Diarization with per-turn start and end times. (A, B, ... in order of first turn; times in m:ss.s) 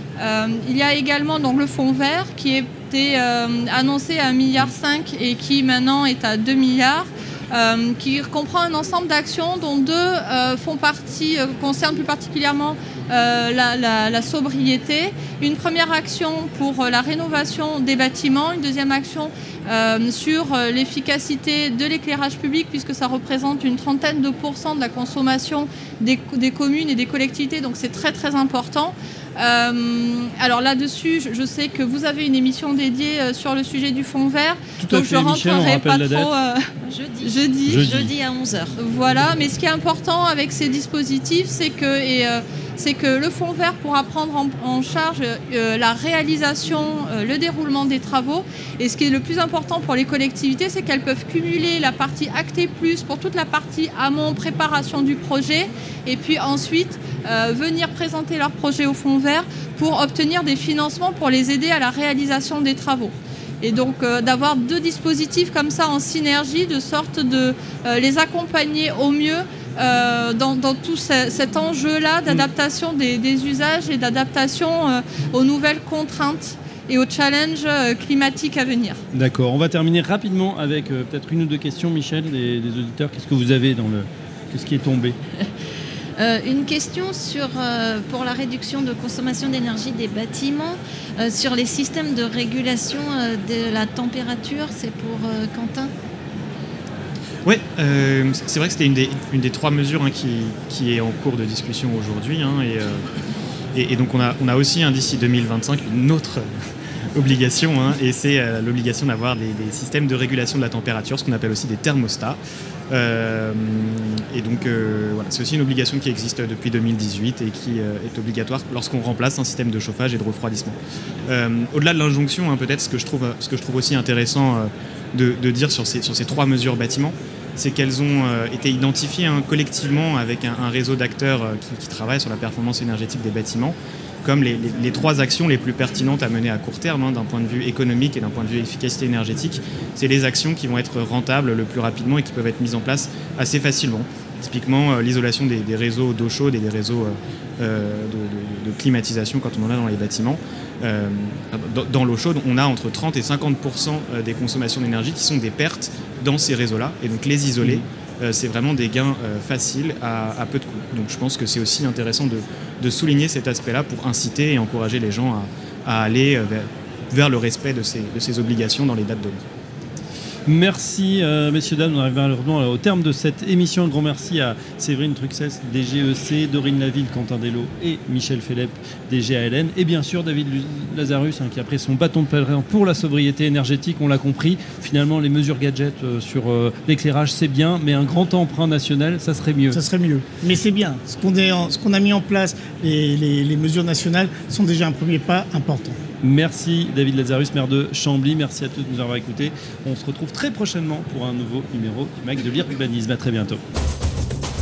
0:00.2-0:37.9 A
0:34.8-0:36.3 B
0:36.8-0:38.7 C
0:37.7-0:38.1 B
0:38.8-1:19.0 A
1:19.1-1:25.2 B
1:26.2-1:35.9 C
1:37.4-1:43.0 D
1:43.7-1:46.5 D
1:47.1-1:52.4 D
1:52.9-2:49.4 D
2:50.5-3:09.8 B
3:09.7-3:16.0 E
3:16.2-3:23.6 B